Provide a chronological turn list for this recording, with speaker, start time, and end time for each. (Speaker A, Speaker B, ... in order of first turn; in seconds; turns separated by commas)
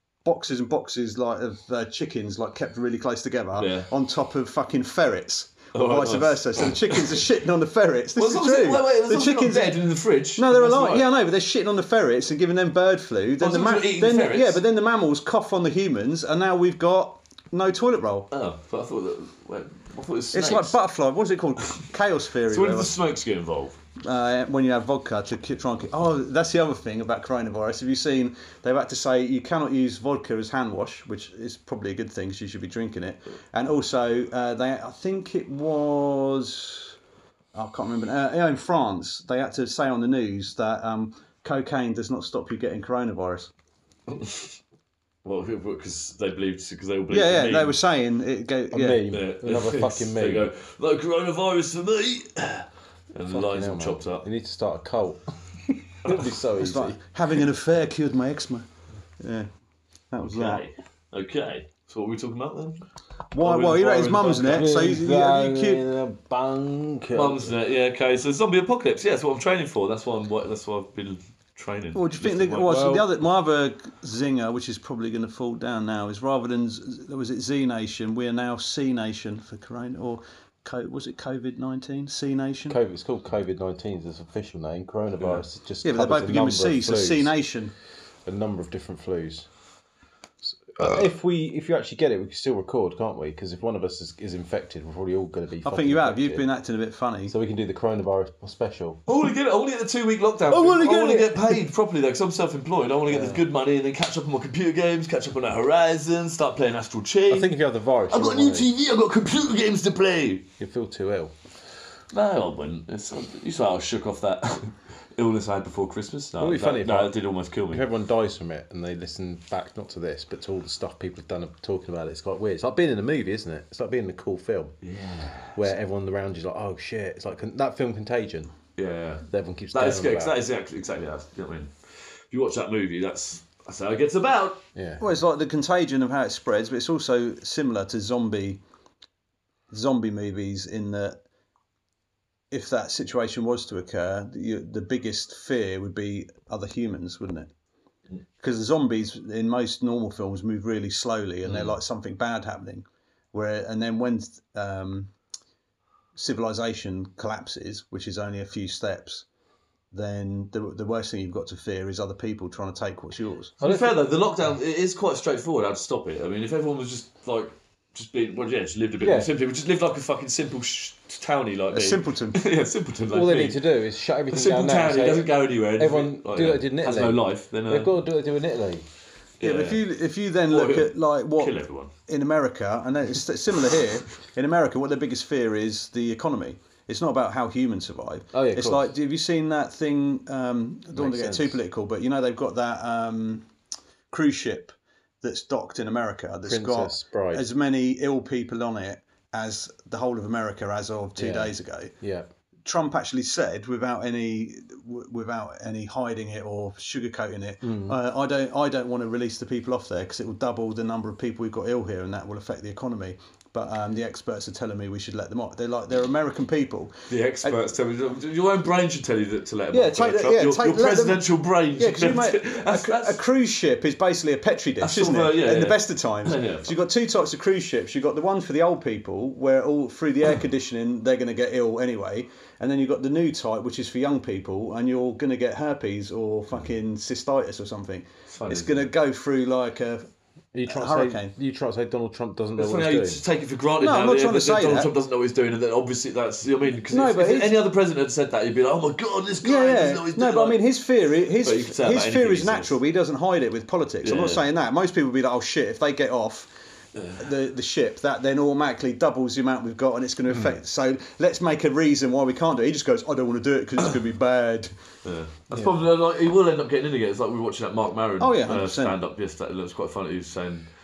Speaker A: 0.2-9.8, Speaker B: 3.5-3.9, Speaker B: 5.7-7.2, Speaker B: 8.2-11.0, Speaker A: 10.3-18.3, Speaker B: 13.4-14.6, Speaker B: 18.3-20.8, Speaker A: 20.3-22.9, Speaker B: 22.5-23.8, Speaker A: 24.0-37.0, Speaker A: 37.5-43.5, Speaker B: 44.1-44.5, Speaker B: 45.2-47.8, Speaker A: 47.1-49.0, Speaker C: 48.7-50.5, Speaker B: 49.1-54.2, Speaker C: 53.3-55.2, Speaker C: 56.0-57.0, Speaker A: 56.6-58.6, Speaker A: 59.2-59.5, Speaker A: 60.1-60.6, Speaker B: 60.2-62.8, Speaker A: 63.3-65.8, Speaker B: 63.4-64.7, Speaker C: 64.4-67.6, Speaker B: 67.1-72.8, Speaker A: 71.9-82.8, Speaker C: 72.7-73.1, Speaker C: 82.7-87.3, Speaker A: 85.8-87.7, Speaker C: 88.2-89.5, Speaker C: 90.4-96.5, Speaker A: 95.6-97.3, Speaker C: 97.3-99.0, Speaker B: 99.0-107.6, Speaker A: 100.5-101.5, Speaker C: 100.6-101.3, Speaker C: 103.1-103.5, Speaker C: 107.3-108.7, Speaker B: 108.1-110.4, Speaker C: 110.6-111.3, Speaker B: 112.1-117.9, Speaker C: 116.4-117.2, Speaker C: 117.7-124.8, Speaker B: 124.8-125.7, Speaker C: 125.5-128.5, Speaker B: 128.8-131.7, Speaker C: 129.2-130.3, Speaker B: 132.3-134.6, Speaker C: 134.7-135.0, Speaker A: 135.0-138.6, Speaker A: 139.7-141.2, Speaker A: 142.5-147.5, Speaker A: 148.4-155.1, Speaker A: 156.1-159.2, Speaker A: 159.9-163.5, Speaker C: 163.6-163.9, Speaker B: 163.6-173.6, Speaker C: 169.0-169.3, Speaker A: 171.7-172.4, Speaker C: 173.1-178.8, Speaker B: 174.3-177.9, Speaker B: 179.4-179.8, Speaker A: 179.4-193.4, Speaker B: 180.5-181.9, Speaker C: 188.3-188.9, Speaker C: 190.9-191.6, Speaker A: 194.1-201.9, Speaker C: 196.4-197.5, Speaker C: 201.2-202.3, Speaker A: 202.6-217.5, Speaker C: 207.6-208.0, Speaker B: 217.1-223.2, Speaker A: 219.7-240.1, Speaker B: 224.8-226.7, Speaker B: 238.3-238.9, Speaker C: 240.5-243.2, Speaker A: 240.7-241.3, Speaker B: 242.6-250.6, Speaker A: 243.8-244.9, Speaker A: 246.9-247.6, Speaker A: 249.4-256.5, Speaker B: 251.4-252.7, Speaker B: 254.0-254.4, Speaker B: 256.9-257.2, Speaker A: 257.2-264.7, Speaker C: 260.3-260.6, Speaker B: 265.0-270.7, Speaker A: 268.2-269.0